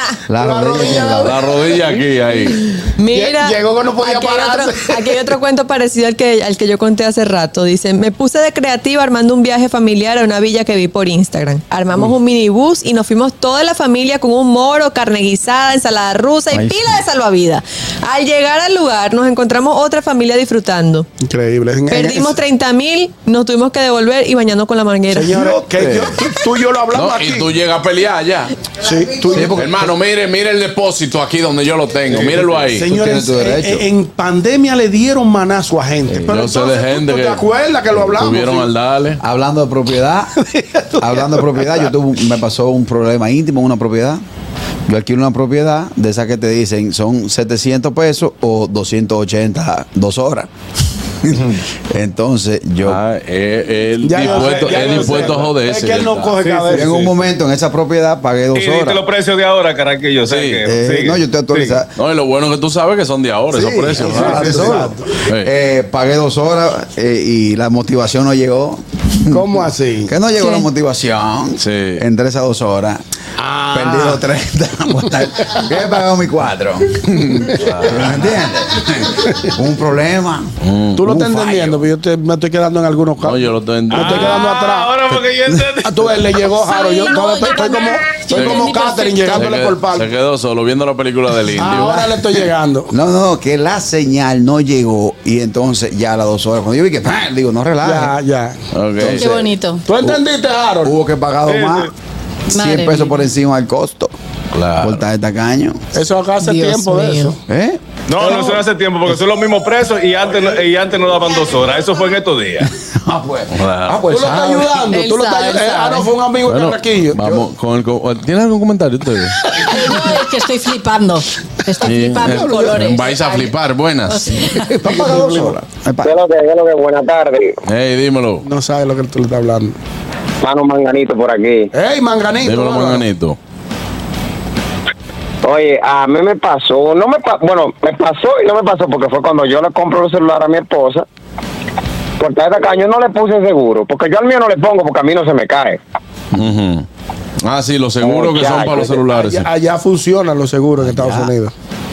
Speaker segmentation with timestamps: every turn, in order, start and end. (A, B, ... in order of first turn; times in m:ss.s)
0:00.3-0:01.4 A
0:00.4-0:01.4 B
0:01.2-0:02.7 C
0:02.8-0:21.1 D
0:03.1-0:05.3 B
0:16.5-0:16.8 A
0:21.2-0:22.4 B
0:21.9-0:25.5 D
0:25.1-0:27.5 B
0:26.9-0:28.5 C
0:28.8-0:29.9 B
0:29.2-0:29.7 A
0:29.4-0:32.9 C
0:32.1-0:38.7 B
0:32.9-0:33.8 A
0:36.3-0:37.4 C
0:37.9-0:38.3 A
0:38.2-0:39.2 C
0:39.2-0:40.3 A
0:40.4-0:41.9 B
0:41.0-0:44.2 A
0:44.9-0:50.5 A
0:51.2-0:53.0 A
0:52.8-0:56.4 C
0:54.0-0:57.1 B
0:54.1-0:55.4 E
0:56.4-0:57.0 E
0:56.7-0:59.0 A
0:58.5-1:01.8 E
1:00.2-1:00.6 C
1:00.6-1:01.9 A
1:02.0-1:04.7 C
1:03.5-1:09.6 A
1:04.0-1:05.1 B
1:09.3-1:10.1 B
1:10.1-1:13.0 A
1:10.4-1:10.7 D
1:11.6-1:12.0 C
1:13.4-1:14.2 B
1:13.7-1:20.5 A
1:17.3-1:18.5 B
1:17.6-1:18.0 C
1:19.1-1:19.5 B
1:20.6-1:21.0 C
1:21.0-1:25.0 B
1:21.0-1:21.7 A
1:23.2-1:24.3 C
1:23.9-1:26.2 E
1:25.8-1:30.1 B
1:26.6-1:29.5 F
1:28.3-1:28.7 C
1:29.3-1:32.1 C
1:31.5-1:32.9 B
1:31.7-1:32.1 A
1:32.9-1:38.1 A
1:37.8-1:38.6 B
1:38.7-1:39.3 C
1:39.0-1:39.5 A
1:39.1-1:39.8 F
1:39.8-1:40.9 B
1:40.8-1:41.9 A
1:41.4-1:41.8 E
1:42.5-1:44.1 A
1:42.5-1:43.3 F
1:44.5-1:45.0 C
1:44.8-1:45.8 A
1:45.9-1:47.4 B
1:46.4-1:47.3 F
1:47.5-1:47.8 A
1:48.1-1:52.7 E
1:48.2-1:48.4 B
1:48.3-1:48.6 F
1:52.6-1:53.6 A
1:53.5-1:54.7 C
1:53.9-1:57.4 B
1:54.9-1:56.0 F
1:56.4-1:59.4 C
1:59.6-2:03.6 F
2:01.8-2:04.4 C
2:02.2-2:02.8 B
2:04.1-2:04.9 F
2:04.7-2:06.1 A
2:04.8-2:05.6 B
2:06.0-2:07.5 G
2:07.6-2:08.4 C
2:08.4-2:09.7 B
2:10.4-2:11.7 G
2:11.7-2:13.0 B
2:12.4-2:13.4 C
2:15.4-2:21.0 G
2:22.2-2:25.8 G
2:26.3-2:26.8 C
2:27.4-2:29.4 C
2:28.0-2:28.9 G
2:28.8-2:31.5 B
2:30.8-2:31.3 A